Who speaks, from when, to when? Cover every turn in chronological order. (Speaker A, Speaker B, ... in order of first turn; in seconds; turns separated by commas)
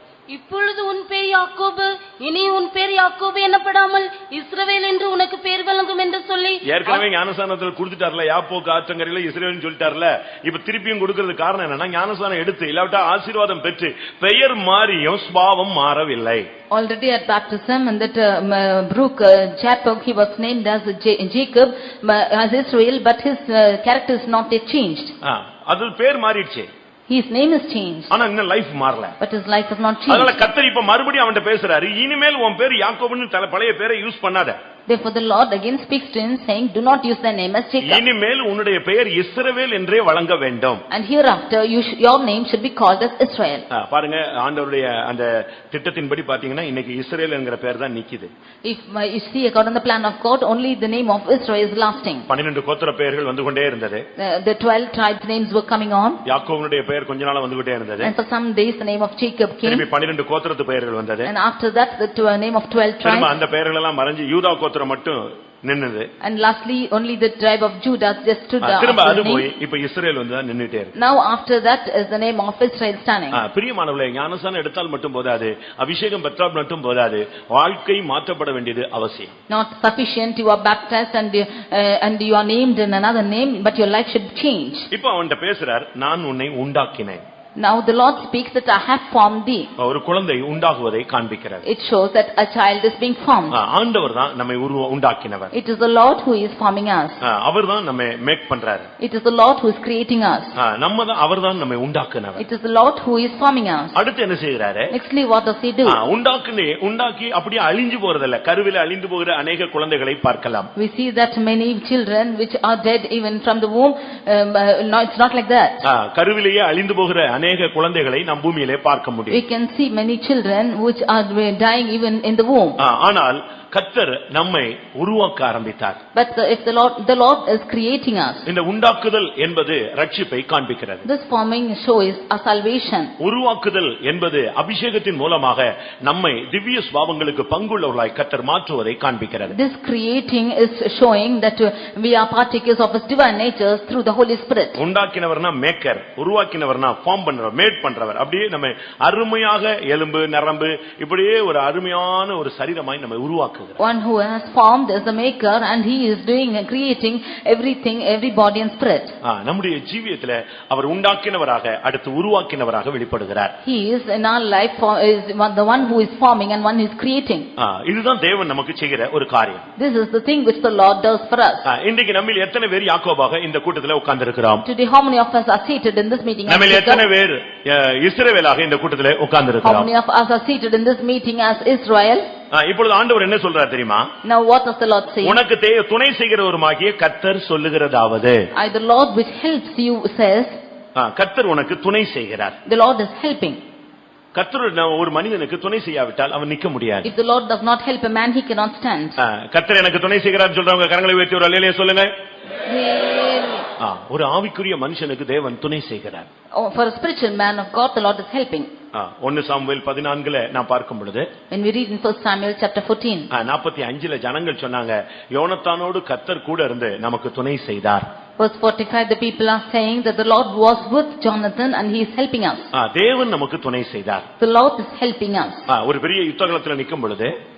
Speaker A: 0.3-7.0, Speaker B: 6.6-16.5, Speaker C: 16.7-25.1, Speaker B: 25.2-26.7, Speaker C: 27.1-28.1, Speaker B: 28.1-29.2, Speaker C: 29.2-30.4, Speaker B: 30.1-34.6, Speaker C: 34.9-38.0, Speaker B: 37.8-40.8, Speaker C: 40.9-43.7, Speaker B: 43.7-48.3, Speaker C: 48.6-52.3, Speaker B: 52.3-54.0, Speaker C: 54.2-56.2, Speaker B: 56.3-58.1, Speaker C: 58.0-59.9, Speaker B: 59.6-61.3, Speaker C: 61.2-63.3, Speaker B: 63.0-66.1, Speaker C: 66.2-69.5, Speaker B: 68.6-70.9, Speaker C: 71.0-73.4, Speaker B: 73.3-79.3, Speaker C: 79.5-84.9, Speaker B: 84.9-87.2, Speaker C: 87.6-89.7, Speaker B: 89.8-91.7, Speaker C: 91.7-93.6, Speaker B: 93.5-95.5, Speaker C: 95.5-97.2, Speaker B: 97.2-98.9, Speaker C: 99.0-100.5, Speaker B: 100.6-102.4, Speaker C: 102.4-104.0, Speaker B: 104.0-104.9, Speaker C: 104.9-106.0, Speaker B: 105.9-110.7, Speaker C: 110.8-115.8, Speaker B: 115.8-119.4, Speaker C: 119.3-122.8, Speaker B: 122.8-126.0, Speaker C: 126.1-128.5, Speaker B: 128.5-131.1, Speaker C: 131.1-133.1, Speaker B: 133.2-139.6, Speaker C: 139.5-144.8, Speaker B: 144.8-153.8, Speaker C: 153.8-159.1, Speaker B: 159.2-163.5, Speaker C: 163.6-167.5, Speaker B: 167.6-169.7, Speaker C: 169.8-171.7, Speaker B: 171.7-174.6, Speaker C: 174.6-177.1, Speaker B: 176.5-179.9, Speaker C: 179.6-182.3, Speaker B: 182.5-184.1, Speaker C: 184.2-185.4, Speaker B: 185.2-188.4, Speaker C: 188.6-190.6, Speaker B: 191.0-192.6, Speaker C: 192.7-193.6, Speaker B: 194.3-197.1, Speaker C: 197.1-199.2, Speaker B: 199.2-202.1, Speaker C: 202.7-203.7, Speaker B: 203.8-206.3, Speaker C: 206.6-208.7, Speaker B: 208.9-211.3, Speaker C: 211.5-213.3, Speaker B: 213.3-218.1, Speaker C: 218.4-222.7, Speaker B: 222.7-224.3, Speaker C: 224.4-225.7, Speaker B: 225.7-227.3